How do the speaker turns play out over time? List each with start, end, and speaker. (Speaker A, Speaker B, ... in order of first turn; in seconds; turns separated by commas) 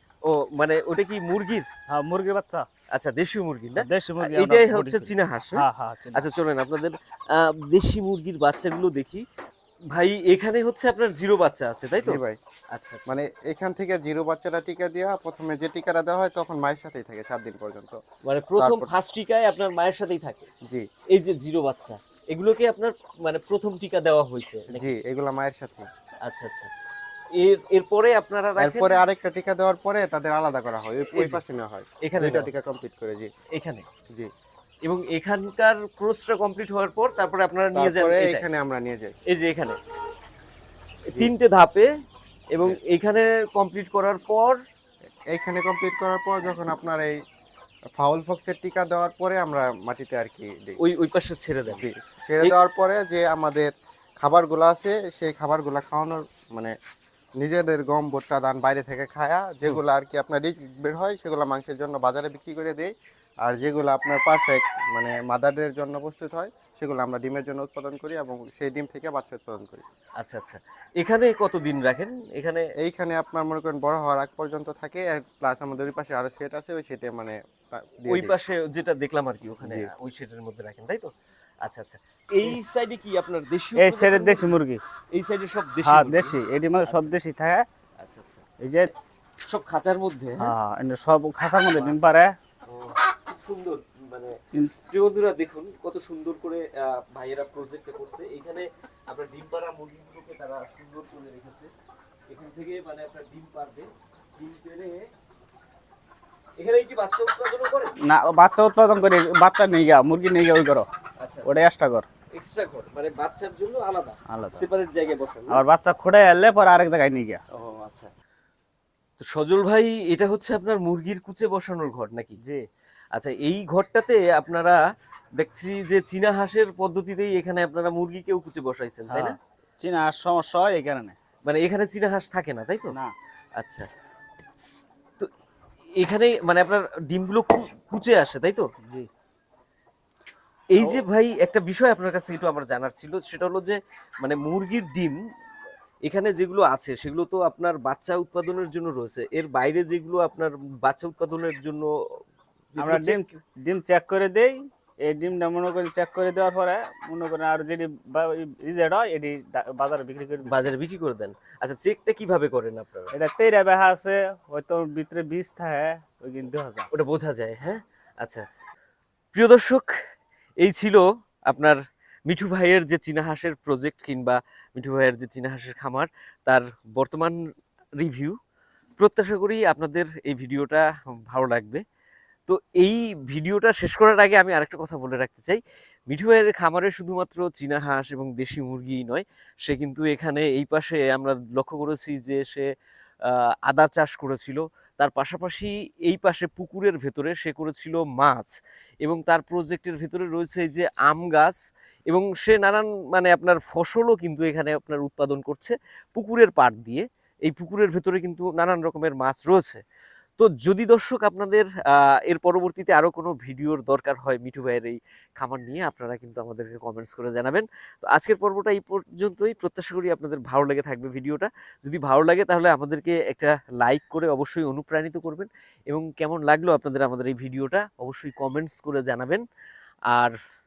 Speaker A: 0.2-1.7, Speaker B: 1.9-2.6, Speaker A: 2.9-9.2, Speaker B: 3.8-6.3, Speaker A: 9.9-12.2, Speaker C: 12.0-12.4, Speaker A: 12.7-13.1, Speaker C: 13.1-18.0, Speaker A: 18.2-20.5, Speaker C: 18.6-18.9, Speaker A: 21.1-24.9, Speaker C: 24.7-25.9, Speaker A: 26.2-26.7, Speaker A: 27.4-29.0, Speaker C: 28.6-33.3, Speaker A: 31.1-31.4, Speaker A: 32.0-32.5, Speaker A: 33.5-33.9, Speaker A: 34.8-38.4, Speaker C: 37.7-39.1, Speaker A: 39.3-39.8, Speaker A: 41.1-41.9, Speaker A: 42.5-44.6, Speaker C: 45.3-47.2, Speaker C: 48.0-50.8, Speaker A: 50.8-51.8, Speaker C: 51.7-56.7, Speaker C: 57.4-62.9, Speaker C: 63.4-69.8, Speaker A: 70.2-72.7, Speaker C: 72.8-78.3, Speaker A: 78.1-81.1, Speaker C: 79.6-79.9, Speaker A: 81.6-84.5, Speaker B: 83.8-84.8, Speaker A: 85.1-87.1, Speaker B: 85.8-87.7, Speaker A: 88.0-88.4, Speaker B: 88.6-88.9, Speaker A: 89.4-90.5, Speaker B: 90.4-92.3, Speaker A: 92.7-94.3, Speaker A: 94.9-101.7, Speaker A: 102.3-105.1, Speaker A: 106.6-107.9, Speaker B: 108.0-110.9, Speaker A: 111.2-111.6, Speaker B: 111.5-112.0, Speaker A: 112.3-115.6, Speaker B: 114.3-114.7, Speaker B: 115.5-117.4, Speaker A: 117.5-118.1, Speaker A: 119.2-122.4, Speaker A: 123.1-124.8, Speaker A: 125.4-129.4, Speaker B: 129.1-131.1, Speaker A: 131.4-132.9, Speaker A: 133.6-133.9, Speaker A: 136.0-138.6, Speaker A: 140.7-145.2, Speaker B: 140.8-141.0, Speaker A: 146.1-151.9, Speaker A: 152.7-153.4, Speaker B: 152.8-160.7, Speaker A: 160.4-163.1, Speaker B: 163.1-166.9, Speaker A: 166.9-168.4, Speaker A: 169.3-169.9, Speaker A: 170.6-171.8, Speaker A: 172.3-177.4, Speaker A: 178.0-178.3, Speaker A: 179.0-181.8, Speaker A: 182.5-192.7, Speaker A: 193.2-209.8, Speaker A: 210.4-229.4